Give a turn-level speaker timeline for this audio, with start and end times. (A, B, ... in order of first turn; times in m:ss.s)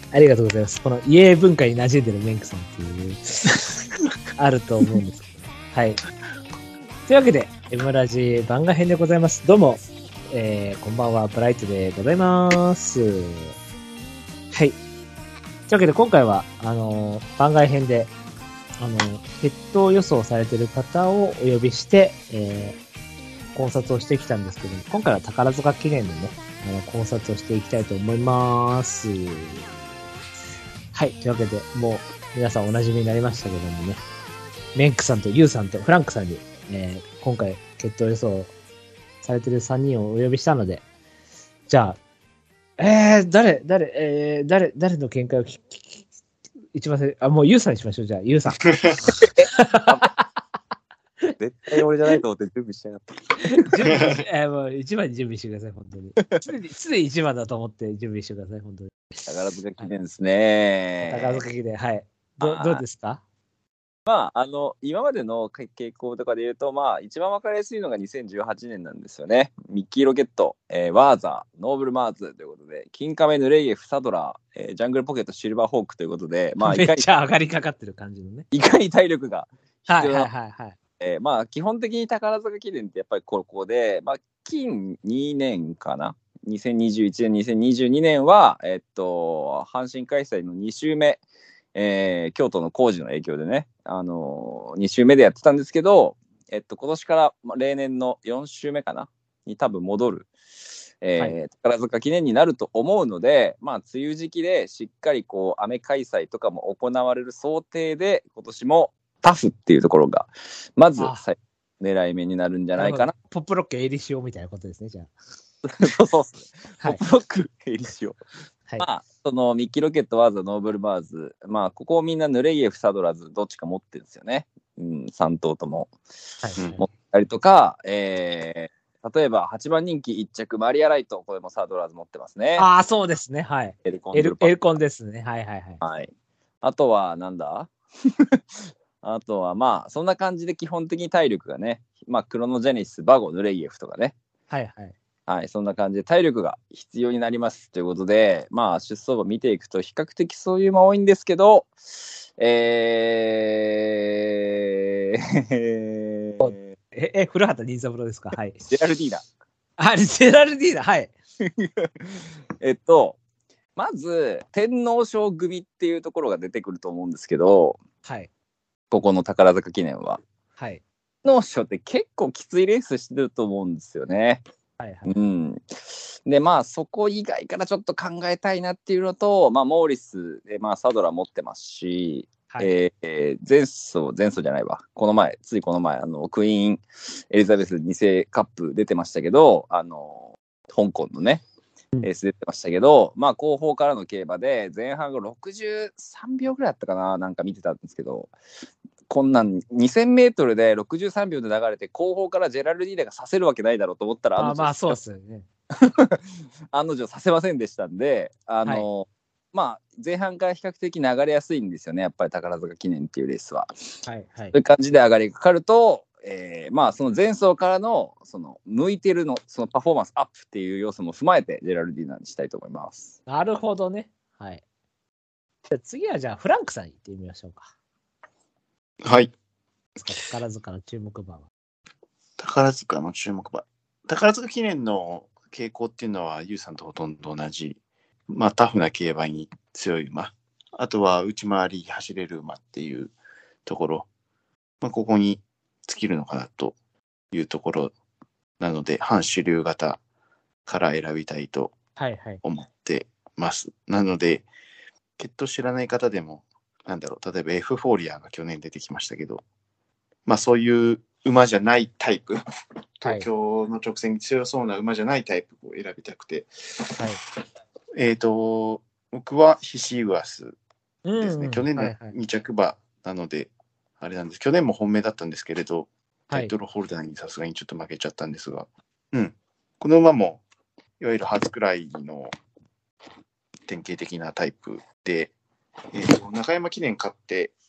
0:00.1-0:03.6 A
0:04.4-0:06.0 A
0:07.1-0:13.5 A
0:15.7-0:18.1 A
0:18.8-0:22.8 A
0:23.5-0:29.7 A
0:30.9-0:34.0 A
0:34.7-0:38.5 A
0:39.2-0:40.8 A
0:41.7-0:42.0 A
0:42.8-0:46.0 A
0:46.7-0:50.2 A
0:49.4-0:50.1 B
0:51.4-0:53.7 B
0:53.5-0:59.9 A
0:59.3-1:01.4 B
1:01.0-1:03.2 A
1:02.4-1:02.8 B
1:04.1-1:17.1 B
1:16.6-1:18.5 A
1:18.5-1:20.3 B
1:19.9-1:20.8 A
1:21.0-1:31.2 B
1:31.8-1:40.3 B
1:41.0-1:53.1 B
1:51.0-1:51.2 A
1:52.8-1:55.1 A
1:55.6-1:58.2 B
1:58.8-2:05.9 B
2:06.4-2:06.8 A
2:06.6-2:12.7 B
2:12.6-2:15.8 A
2:13.8-2:14.6 B
2:15.8-2:16.1 B
2:16.6-2:17.7 B
2:19.0-2:24.1 B
2:24.5-2:25.0 A
2:25.3-2:31.8 B
2:32.4-2:34.8 B
2:35.5-2:36.6 B
2:36.4-2:38.7 A
2:38.7-2:39.2 B
2:39.8-2:41.1 A
2:41.6-2:43.2 B
2:43.8-2:47.8 B
2:48.9-2:50.2 B
2:50.6-2:50.8 A
2:51.2-2:54.4 B
2:54.8-2:55.2 A
2:55.0-3:11.4 B
3:12.0-3:18.3 B
3:19.1-3:25.0 B
3:24.4-3:25.5 A
3:25.8-3:26.2 B
3:26.7-3:33.7 B
3:34.0-3:34.6 A
3:34.5-3:43.1 B
3:43.3-3:44.6 A
3:45.7-3:47.7 A
3:49.0-3:49.3 C
3:50.0-3:51.5 A
3:52.4-3:57.8 C
3:58.3-4:03.1 C
4:03.7-4:04.1 C
4:04.8-4:06.8 C
4:07.3-4:07.9 C
4:08.6-4:10.0 C
4:10.7-4:11.8 C
4:12.0-4:12.4 A
4:12.4-4:14.5 C
4:15.2-4:19.4 C
4:20.2-4:22.4 C
4:23.0-4:27.1 C
4:28.0-4:30.6 C
4:31.0-4:32.2 A
4:31.2-4:40.4 C
4:41.0-4:42.3 C
4:43.7-4:45.3 C
4:45.9-4:47.5 C